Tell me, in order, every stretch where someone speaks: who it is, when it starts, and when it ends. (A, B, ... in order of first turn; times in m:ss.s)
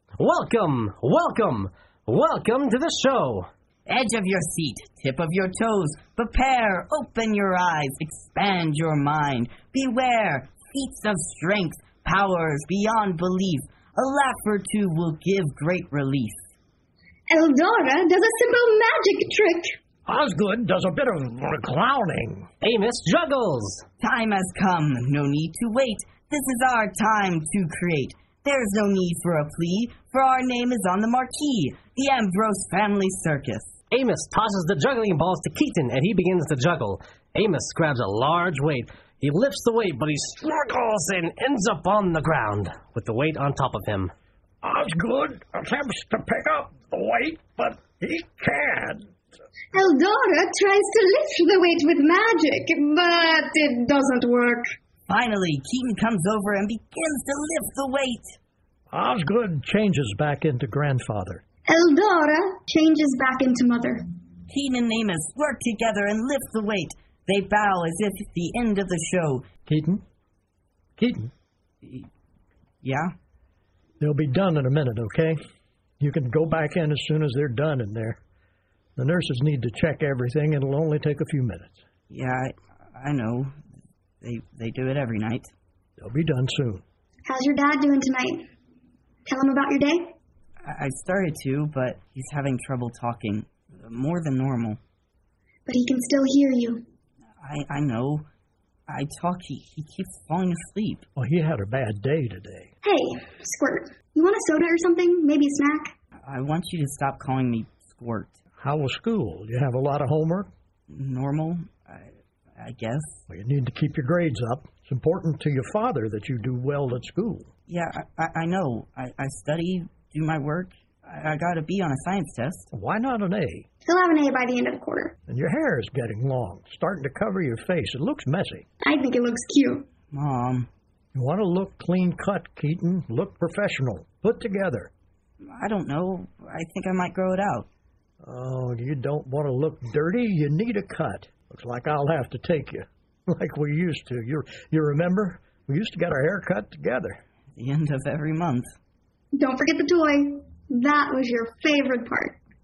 0:00.2-0:03.5 A
0:03.9-0:16.4 B
0:17.3-0:19.8 C
0:20.1-0:22.5 D
0:22.6-0:23.8 A
0:24.0-0:33.7 B
0:33.9-0:44.1 A
0:44.6-0:49.1 D
0:49.7-0:54.7 C
0:55.1-0:58.4 B
0:58.9-1:01.4 D
1:01.7-1:04.0 C
1:04.5-1:09.5 B
1:09.7-1:10.0 D
1:11.0-1:11.3 D
1:12.8-1:13.1 B
1:14.0-1:15.4 D
1:16.0-1:18.2 D
1:19.0-1:21.8 D
1:22.1-1:23.6 B
1:24.2-1:25.5 B
1:26.0-1:26.8 D
1:27.3-1:28.5 C
1:29.3-1:30.2 C
1:30.6-1:34.8 B
1:35.7-1:36.8 C
1:37.4-1:38.3 B
1:38.9-1:41.0 B
1:41.2-1:42.7 D
1:42.8-1:45.9 C
1:46.2-1:48.4 B
1:48.6-1:50.5 D
1:50.9-1:53.2 B
1:53.3-1:57.5 D
1:57.7-2:02.7 B
2:02.7-2:03.7 D
2:03.8-2:05.2 C
2:05.3-2:08.6 D
2:08.8-2:09.9 C
2:10.1-2:10.7 B
2:11.1-2:14.9 D
2:15.4-2:17.7 B
2:18.2-2:27.2 D
2:27.6-2:28.7 B
2:29.4-2:32.4 C